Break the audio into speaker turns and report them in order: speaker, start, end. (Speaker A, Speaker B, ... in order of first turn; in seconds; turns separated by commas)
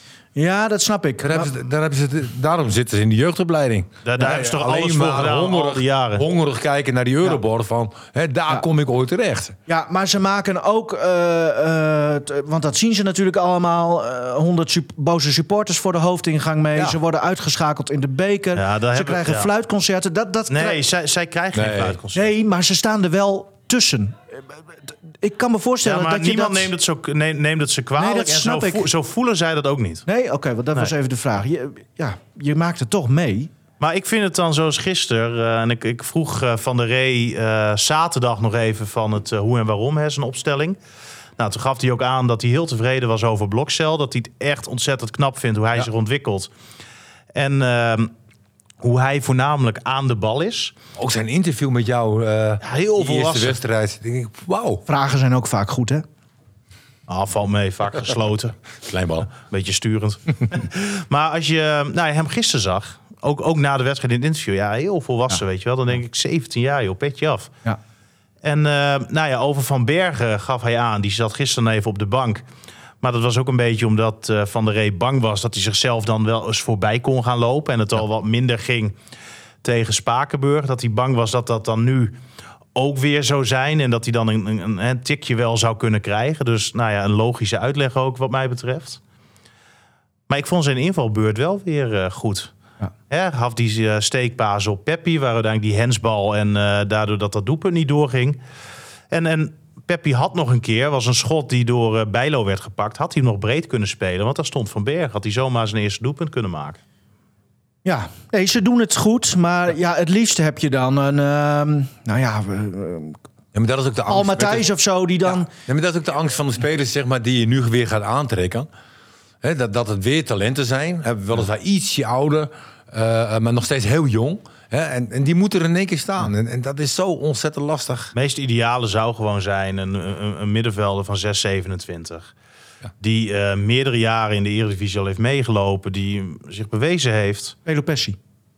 Speaker A: 0.3-1.5, Speaker B: 1.2-9.5, Speaker C: 4.0-6.2, Speaker A: 9.7-20.8, Speaker C: 18.5-19.5, Speaker C: 20.5-22.3, Speaker B: 21.5-22.0, Speaker A: 22.1-24.4, Speaker A: 25.1-26.7, Speaker C: 25.8-30.0, Speaker A: 28.0-28.9, Speaker A: 30.1-33.5, Speaker C: 33.8-40.8, Speaker C: 41.4-46.5, Speaker C: 47.3-48.1, Speaker C: 48.8-50.8, Speaker B: 51.0-54.8, Speaker C: 52.6-53.6, Speaker A: 54.9-56.0, Speaker C: 57.1-58.5, Speaker B: 58.8-59.3, Speaker C: 59.3-67.5, Speaker C: 68.4-72.4, Speaker C: 73.0-78.9, Speaker C: 79.6-82.2, Speaker C: 82.7-89.0, Speaker C: 90.3-92.5, Speaker C: 93.1-98.4, Speaker C: 99.1-106.8, Speaker A: 107.8-113.2, Speaker B: 113.5-114.7, Speaker A: 114.1-115.5, Speaker B: 115.5-118.7, Speaker B: 119.4-128.1, Speaker C: 128.1-132.3, Speaker C: 133.0-137.5, Speaker A: 137.7-138.2